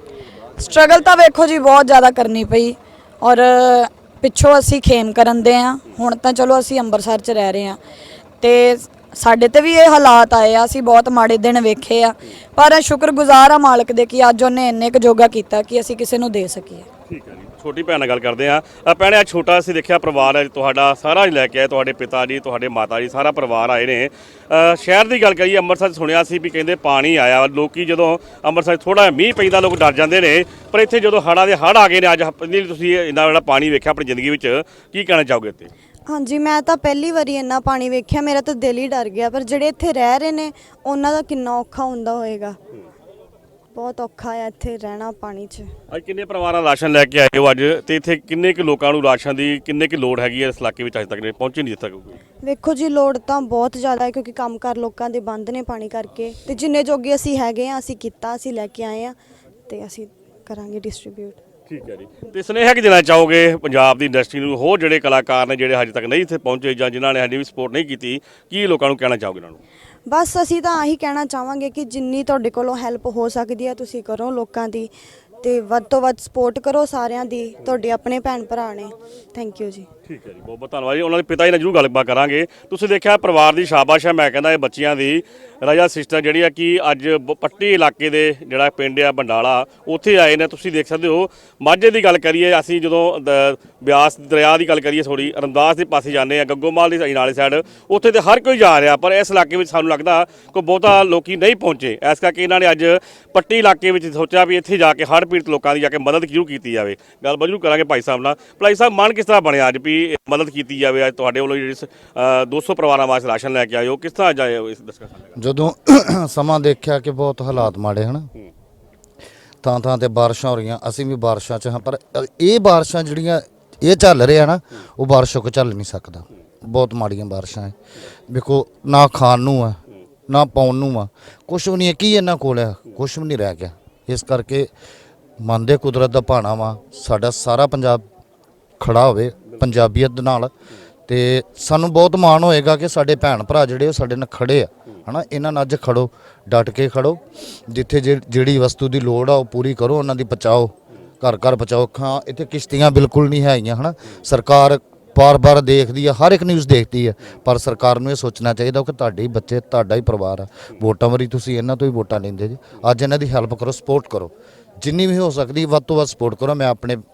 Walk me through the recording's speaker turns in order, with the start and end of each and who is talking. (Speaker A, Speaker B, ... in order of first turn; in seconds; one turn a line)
Speaker A: 0.6-7.8
Speaker A: 8.4-16.9
Speaker B: 17.1-35.7
Speaker C: 36.1-42.6
Speaker C: 43.7-45.7
Speaker B: 45.9-52.2
Speaker C: 52.4-59.2
Speaker C: 59.7-61.4
Speaker B: 61.7-69.6
Speaker C: 70.1-74.9
Speaker C: 75.4-79.9
Speaker B: 80.1-115.4
Speaker D: 115.4-118.3
Speaker D: 119.6-127.8
Speaker D: 128.3-129.8
Speaker D: 130.3-134.7
Speaker D: 135.4-138.1
Speaker D: 138.8-140.5
Speaker D: 141.1-167.0